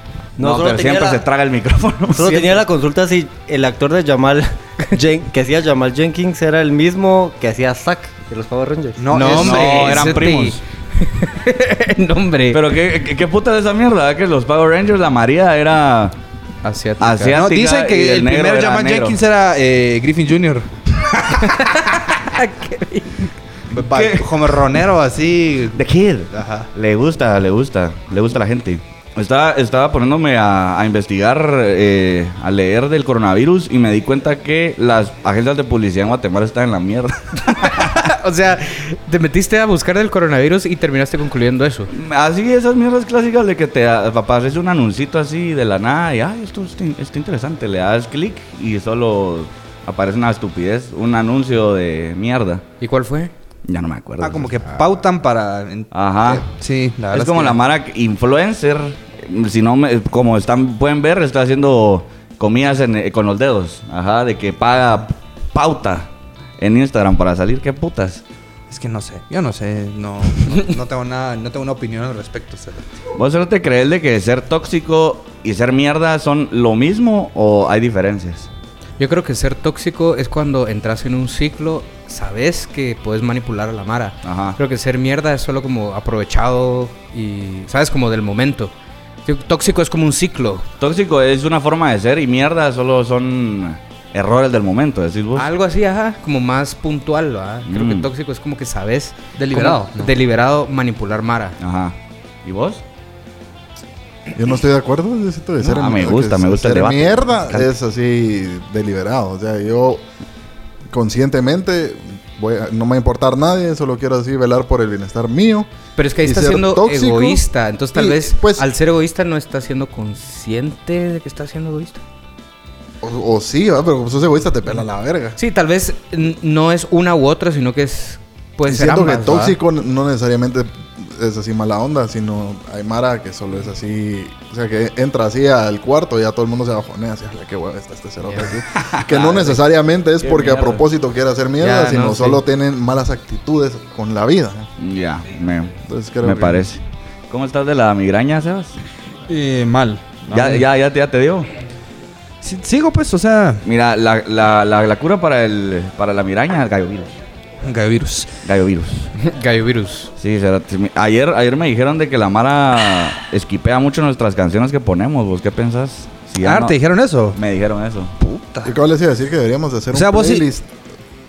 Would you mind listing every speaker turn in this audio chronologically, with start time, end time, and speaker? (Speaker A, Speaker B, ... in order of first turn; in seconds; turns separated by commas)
Speaker A: 0.4-1.2, Speaker B: 0.4-2.6, Speaker A: 2.1-9.1, Speaker C: 9.0-10.1, Speaker D: 9.1-12.6, Speaker B: 9.2-10.6, Speaker B: 12.5-16.2, Speaker D: 16.6-17.4, Speaker B: 17.0-19.2, Speaker C: 17.3-20.7, Speaker B: 21.2-21.4, Speaker D: 21.4-23.2, Speaker C: 23.7-25.8, Speaker B: 23.8-24.5, Speaker B: 25.7-37.9, Speaker C: 26.3-26.7, Speaker D: 37.6-41.9, Speaker B: 41.9-52.6, Speaker D: 52.8-53.3, Speaker B: 53.7-54.6, Speaker C: 54.2-57.6, Speaker B: 55.9-56.5, Speaker B: 57.1-68.2, Speaker C: 68.7-73.0, Speaker B: 73.2-78.5, Speaker D: 79.0-88.7, Speaker B: 84.2-84.6, Speaker D: 89.3-90.7, Speaker B: 90.8-95.5, Speaker D: 95.4-101.6, Speaker B: 97.7-98.1, Speaker C: 99.4-100.2, Speaker B: 101.6-102.8, Speaker E: 104.3-110.0, Speaker B: 105.6-107.7, Speaker E: 110.9-115.7, Speaker D: 116.0-122.0, Speaker E: 116.2-117.4, Speaker E: 117.9-118.7, Speaker E: 123.0-125.4, Speaker D: 125.4-129.6, Speaker E: 128.7-144.7, Speaker B: 138.9-139.6, Speaker B: 140.2-140.8, Speaker D: 141.6-142.4, Speaker B: 144.8-148.8, Speaker E: 145.9-146.6, Speaker C: 149.3-150.6, Speaker B: 150.3-151.5, Speaker C: 152.4-153.6, Speaker B: 153.6-157.1, Speaker C: 157.6-158.3, Speaker B: 158.4-159.1, Speaker D: 159.2-160.1, Speaker B: 160.2-166.8, Speaker C: 166.4-167.4, Speaker B: 167.3-168.1, Speaker C: 168.2-168.8, Speaker E: 168.7-170.7, Speaker C: 169.9-170.5